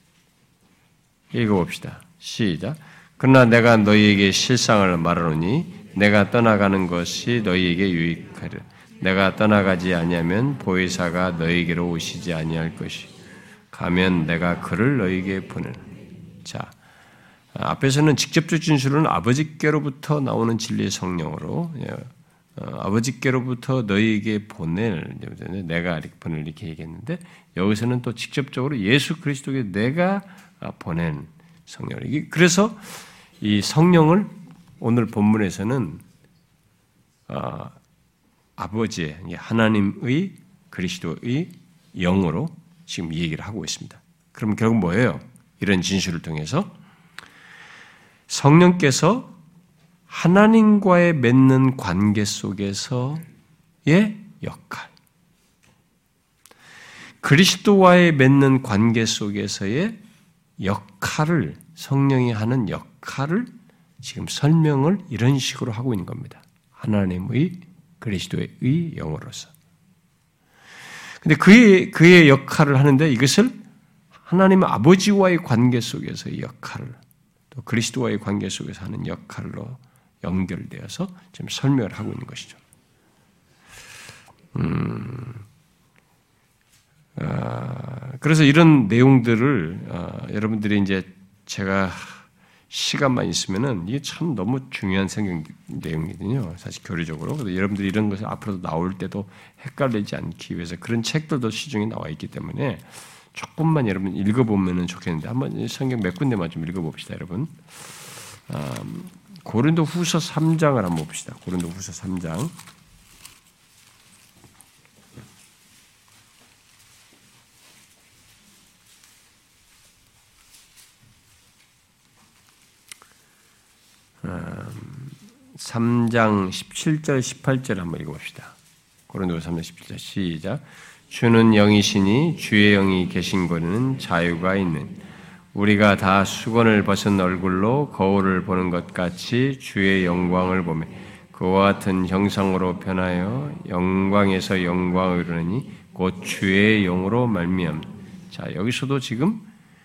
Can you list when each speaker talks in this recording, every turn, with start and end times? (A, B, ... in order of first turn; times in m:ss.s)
0:01.3-0:13.1 A
0:13.7-0:15.8 A
0:16.4-0:16.8 A
0:17.5-0:32.8 A
0:33.4-0:36.0 A
0:37.3-0:37.8 A
0:38.6-0:46.7 A
0:48.3-0:49.3 A
0:50.1-0:53.2 A
0:53.9-0:54.9 A
0:57.2-1:00.0 A
1:00.6-1:03.5 A
1:04.0-1:09.5 A
1:11.2-1:13.6 A
1:14.3-1:17.0 A
1:17.5-1:22.6 A
1:24.5-1:25.5 A
1:27.2-1:47.6 A
1:48.5-1:52.5 A
2:04.2-2:08.6 A
2:09.1-2:15.0 A
2:15.5-2:29.5 A